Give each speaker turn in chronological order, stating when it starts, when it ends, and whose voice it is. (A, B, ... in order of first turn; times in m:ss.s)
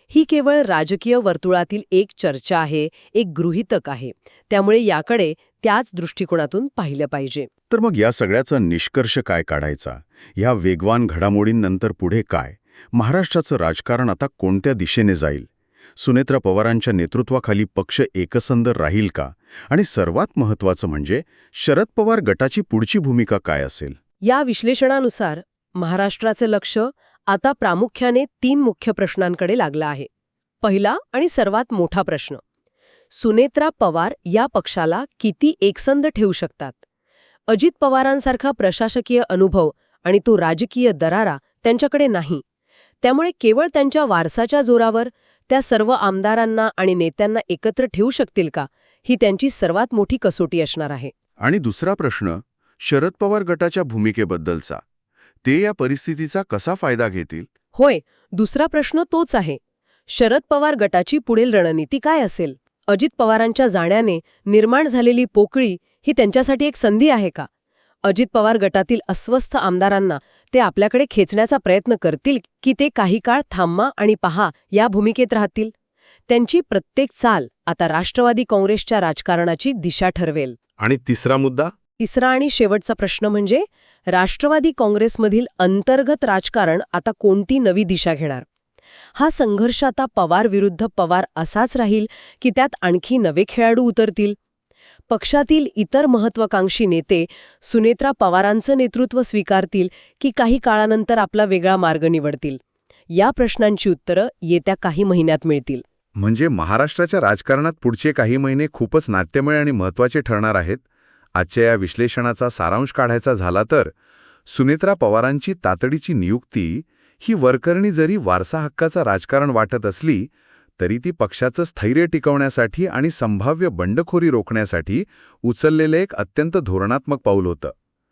0:00.1-0:07.5 A
0:07.7-0:24.0 B
0:24.2-0:30.1 A
0:30.6-0:32.4 A
0:33.1-0:36.8 A
0:37.5-0:42.4 A
0:43.0-0:51.1 A
0:51.4-0:54.8 B
0:55.4-0:57.5 B
0:57.7-1:07.5 A
1:08.0-1:15.7 A
1:16.3-1:20.6 A
1:20.8-1:21.7 B
1:22.0-1:28.4 A
1:29.2-1:34.4 A
1:35.1-1:42.6 A
1:43.1-1:45.8 A
1:46.2-1:50.8 B
1:51.4-1:53.9 B
1:54.5-2:07.7 B